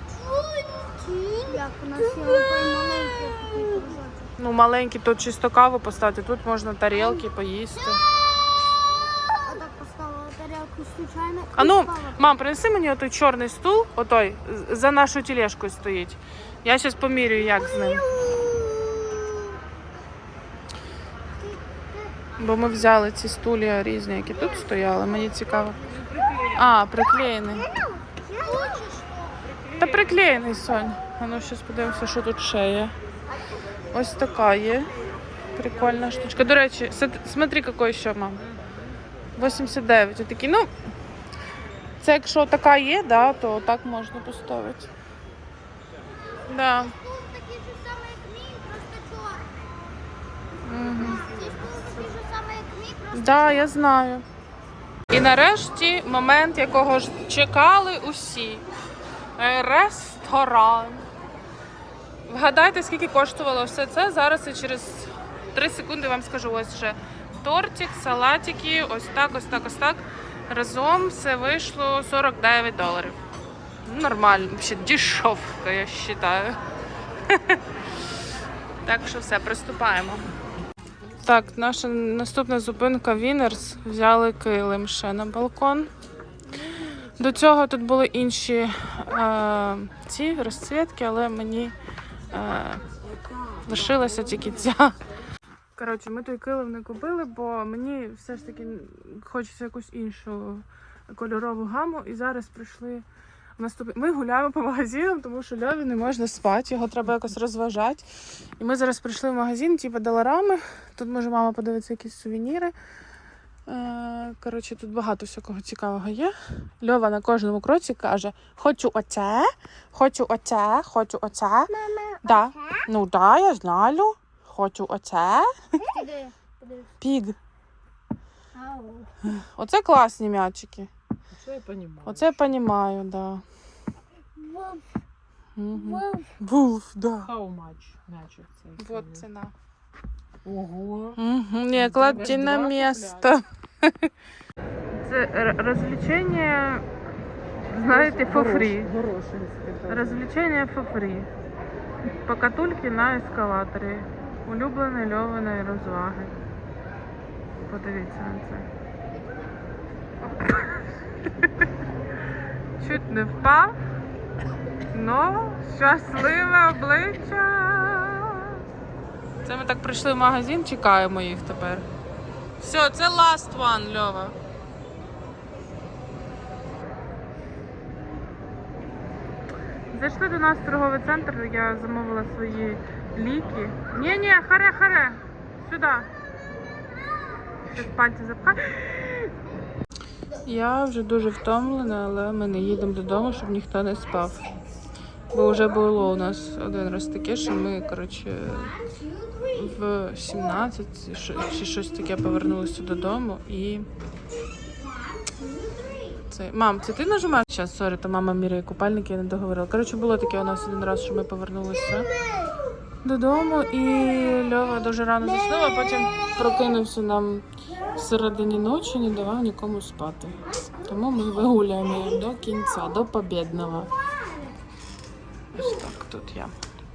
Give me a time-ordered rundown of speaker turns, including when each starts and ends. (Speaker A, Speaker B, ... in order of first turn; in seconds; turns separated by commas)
Speaker A: 0.2-4.3, Speaker B: 4.4-8.0, Speaker A: 9.3-12.2, Speaker B: 11.5-18.1, Speaker A: 18.4-19.6, Speaker B: 22.4-25.8, Speaker B: 26.5-27.7, Speaker A: 27.9-29.4, Speaker B: 29.8-32.9, Speaker B: 33.9-34.9, Speaker B: 35.5-38.4, Speaker B: 39.4-40.7, Speaker B: 42.0-44.9, Speaker B: 46.5-47.0, Speaker A: 47.0-49.6, Speaker B: 50.7-51.2, Speaker A: 51.1-53.7, Speaker B: 53.1-54.2, Speaker B: 55.1-58.6, Speaker B: 59.4-61.1, Speaker B: 62.3-73.2, Speaker B: 73.8-76.6, Speaker B: 77.3-77.6, Speaker B: 78.8-80.2, Speaker B: 81.2-85.9, Speaker B: 87.2-91.8, Speaker B: 92.3-92.8, Speaker B: 93.6-95.0, Speaker B: 95.8-103.0, Speaker B: 103.6-108.1, Speaker B: 108.6-112.7, Speaker B: 113.7-125.5, Speaker A: 121.7-122.8, Speaker A: 125.8-126.9, Speaker B: 127.0-127.4, Speaker A: 128.6-129.1, Speaker B: 129.2-130.9, Speaker C: 131.3-132.4, Speaker B: 132.1-133.4, Speaker A: 134.4-134.8, Speaker B: 135.6-137.3, Speaker C: 137.3-139.2, Speaker B: 138.8-139.5, Speaker C: 140.4-141.2, Speaker B: 141.2-144.1, Speaker C: 141.8-143.2, Speaker B: 144.9-146.9, Speaker B: 147.6-148.9, Speaker C: 147.9-150.2, Speaker B: 149.9-151.3, Speaker B: 152.2-156.3, Speaker B: 157.6-158.7, Speaker B: 160.2-161.7, Speaker B: 162.8-163.8, Speaker B: 164.9-168.6, Speaker B: 169.4-171.9, Speaker B: 172.6-174.4, Speaker B: 179.9-186.1, Speaker B: 187.7-188.8, Speaker B: 190.4-194.5, Speaker B: 195.3-198.8, Speaker A: 199.0-199.5, Speaker B: 199.5-203.9, Speaker A: 205.2-206.1, Speaker B: 206.2-212.1, Speaker B: 213.0-223.9, Speaker B: 225.5-226.5